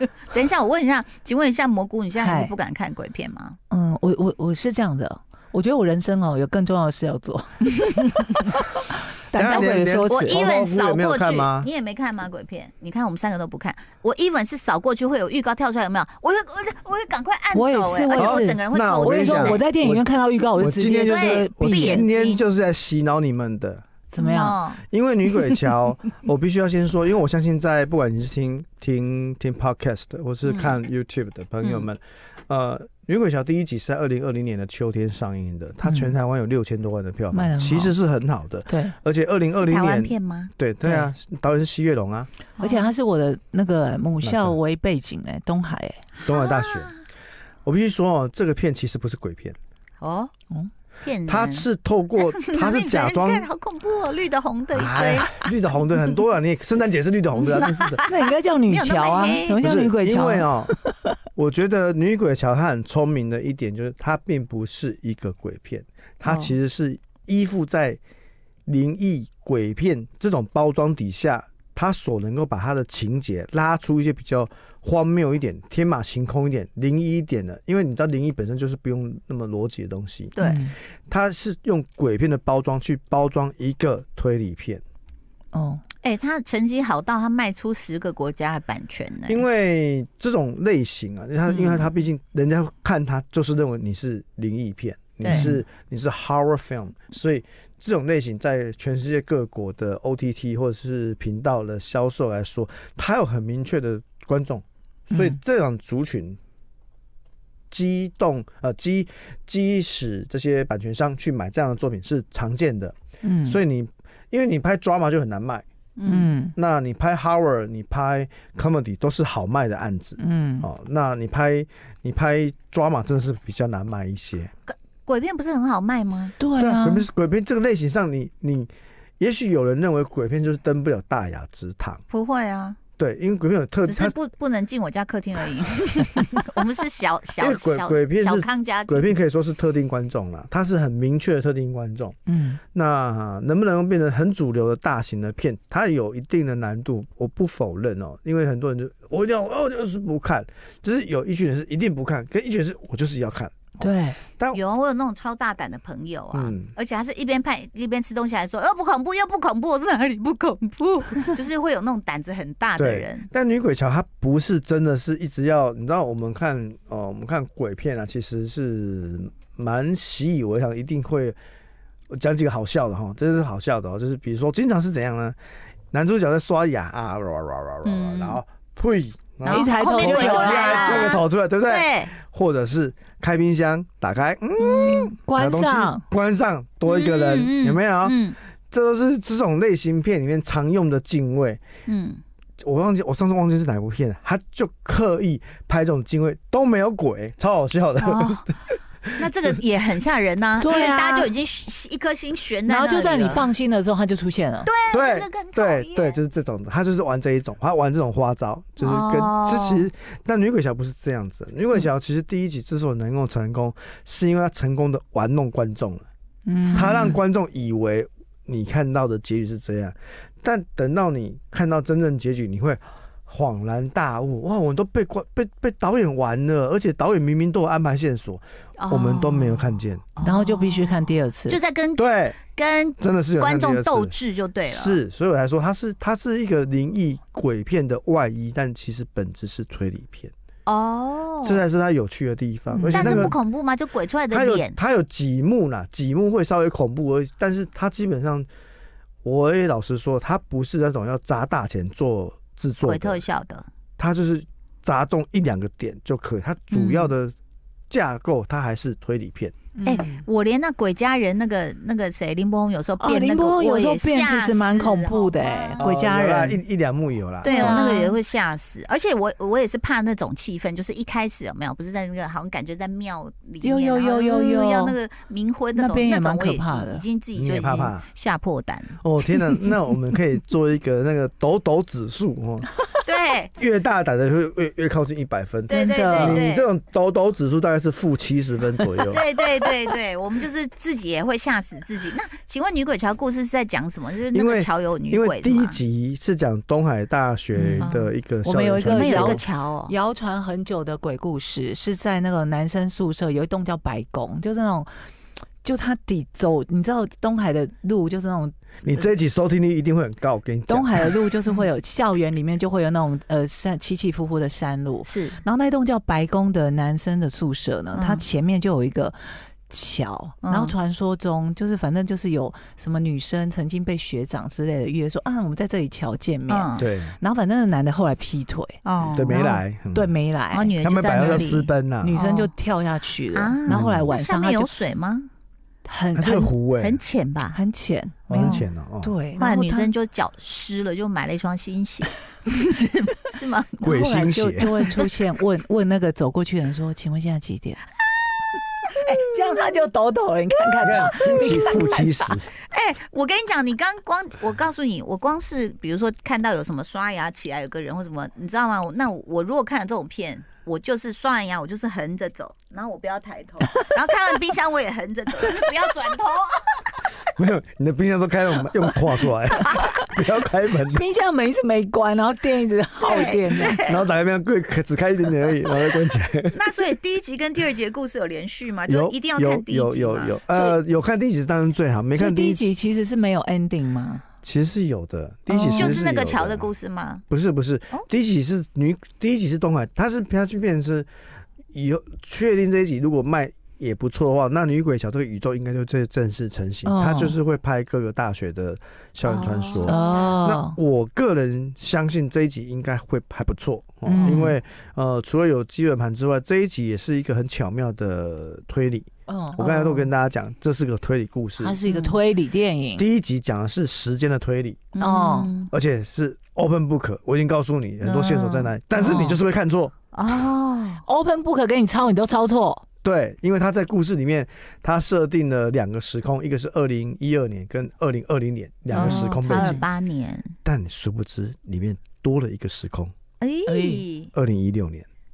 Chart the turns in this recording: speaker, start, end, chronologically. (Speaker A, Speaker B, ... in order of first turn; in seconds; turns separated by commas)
Speaker A: 0.2-3.6, Speaker B: 2.2-2.5, Speaker B: 3.7-10.4, Speaker C: 9.3-11.7, Speaker A: 9.4-19.6, Speaker B: 17.5-22.0, Speaker C: 18.1-20.1, Speaker C: 20.6-23.9, Speaker A: 21.0-22.4, Speaker B: 24.1-24.6, Speaker A: 24.2-24.8, Speaker C: 24.9-42.3, Speaker A: 30.4-30.8, Speaker A: 31.6-31.9, Speaker B: 35.8-36.1, Speaker B: 37.3-37.9, Speaker B: 38.7-39.0, Speaker A: 39.5-40.5, Speaker B: 40.8-41.1, Speaker A: 42.6-42.9, Speaker B: 42.6-46.0, Speaker C: 44.2-44.6, Speaker C: 46.2-47.0, Speaker A: 46.2-47.0, Speaker C: 47.6-49.6, Speaker A: 50.0-50.3, Speaker A: 51.0-55.5, Speaker C: 51.3-53.5, Speaker C: 54.7-58.0, Speaker A: 57.3-58.1, Speaker B: 58.0-61.1, Speaker A: 58.7-59.7, Speaker C: 59.6-60.7, Speaker C: 61.4-68.0, Speaker B: 66.2-66.5, Speaker C: 68.7-80.3, Speaker A: 80.3-80.6, Speaker B: 80.4-80.8, Speaker C: 81.1-84.8, Speaker B: 85.5-85.8, Speaker A: 86.0-89.4, Speaker C: 89.3-106.4, Speaker A: 91.5-91.8, Speaker A: 95.2-95.5, Speaker B: 95.2-95.6, Speaker B: 105.1-105.4, Speaker C: 107.7-115.7, Speaker B: 113.2-113.6, Speaker A: 116.0-116.3, Speaker B: 116.0-116.5, Speaker C: 116.5-124.5, Speaker B: 120.2-120.7, Speaker A: 124.7-126.3, Speaker B: 126.4-127.1, Speaker C: 126.6-132.0, Speaker A: 132.1-132.8, Speaker C: 133.0-134.2, Speaker A: 133.8-139.2, Speaker C: 137.4-142.2, Speaker B: 142.3-142.6, Speaker C: 142.7-154.6, Speaker B: 153.8-154.2, Speaker A: 154.5-163.3, Speaker C: 156.3-156.7, Speaker C: 162.8-171.4, Speaker C: 172.1-175.4, Speaker C: 175.9-191.6, Speaker A: 177.8-178.4, Speaker A: 179.4-182.1, Speaker B: 179.4-181.2, Speaker A: 184.6-185.1, Speaker B: 185.2-186.0, Speaker A: 186.8-188.4, Speaker A: 191.9-192.2, Speaker C: 192.6-199.2, Speaker A: 198.0-198.5, Speaker A: 199.2-203.5, Speaker B: 200.6-201.3, Speaker B: 202.7-204.7, Speaker A: 204.6-206.2, Speaker C: 204.9-216.0, Speaker A: 208.8-209.9, Speaker B: 216.4-217.2, Speaker C: 216.7-230.0, Speaker A: 228.8-235.0, Speaker B: 230.2-231.6, Speaker C: 232.0-232.4, Speaker C: 233.0-234.1, Speaker C: 234.7-240.3, Speaker A: 240.7-241.6, Speaker C: 241.4-243.4, Speaker B: 242.7-243.3, Speaker A: 242.9-244.8, Speaker C: 244.3-248.5, Speaker C: 249.2-253.2, Speaker A: 252.8-253.7, Speaker C: 254.0-257.3, Speaker B: 256.7-257.1, Speaker C: 257.9-259.5, Speaker B: 259.7-260.2, Speaker A: 259.8-265.9, Speaker B: 263.0-266.6, Speaker C: 265.8-267.9, Speaker A: 267.4-279.0, Speaker B: 267.4-268.2, Speaker B: 273.6-274.9, Speaker B: 275.8-277.0, Speaker C: 277.4-278.0, Speaker C: 279.0-282.7, Speaker A: 283.0-283.5, Speaker C: 283.6-289.2, Speaker A: 285.7-286.7, Speaker B: 285.7-286.4, Speaker A: 289.0-295.8, Speaker C: 294.3-299.4, Speaker B: 297.5-304.9, Speaker A: 297.8-298.1, Speaker A: 298.8-299.9, Speaker B: 305.6-309.0, Speaker C: 308.8-311.2, Speaker B: 310.7-334.7, Speaker A: 315.0-315.4, Speaker A: 317.9-318.2, Speaker A: 320.4-320.7, Speaker A: 326.5-326.9, Speaker C: 326.8-327.2, Speaker A: 328.8-329.6, Speaker C: 329.1-330.2, Speaker A: 330.5-332.5, Speaker C: 330.8-332.2, Speaker A: 333.3-335.3, Speaker C: 333.7-334.1, Speaker B: 335.8-336.5, Speaker C: 336.1-337.0, Speaker A: 336.8-337.6, Speaker B: 337.5-339.9, Speaker C: 338.3-339.1, Speaker A: 338.3-338.6, Speaker A: 339.4-344.0, Speaker C: 343.8-344.7, Speaker B: 343.8-347.8, Speaker A: 344.6-344.9, Speaker B: 348.9-352.3, Speaker C: 350.8-352.5, Speaker A: 351.4-351.8, Speaker A: 352.6-367.0, Speaker C: 367.4-371.0, Speaker B: 370.9-373.9, Speaker A: 373.0-373.9, Speaker C: 373.8-376.6, Speaker A: 376.5-380.6, Speaker C: 378.9-382.7, Speaker B: 382.1-384.2, Speaker C: 384.4-386.7, Speaker B: 385.5-386.0, Speaker A: 385.7-387.2, Speaker C: 387.3-391.1, Speaker C: 391.7-411.8, Speaker B: 396.8-397.4, Speaker A: 399.2-400.3, Speaker B: 399.8-400.8, Speaker B: 404.0-404.6, Speaker B: 409.3-409.6, Speaker A: 409.6-410.1, Speaker B: 411.6-413.1, Speaker A: 411.9-412.2, Speaker C: 412.9-414.9, Speaker A: 414.9-415.7, Speaker B: 415.0-415.5, Speaker C: 415.7-419.9, Speaker B: 418.0-419.4, Speaker A: 420.1-421.0, Speaker B: 421.1-422.8, Speaker C: 423.0-429.8, Speaker B: 428.9-429.9, Speaker A: 428.9-430.5, Speaker C: 430.6-433.1, Speaker A: 433.4-434.3, Speaker B: 433.7-434.0, Speaker C: 434.3-435.1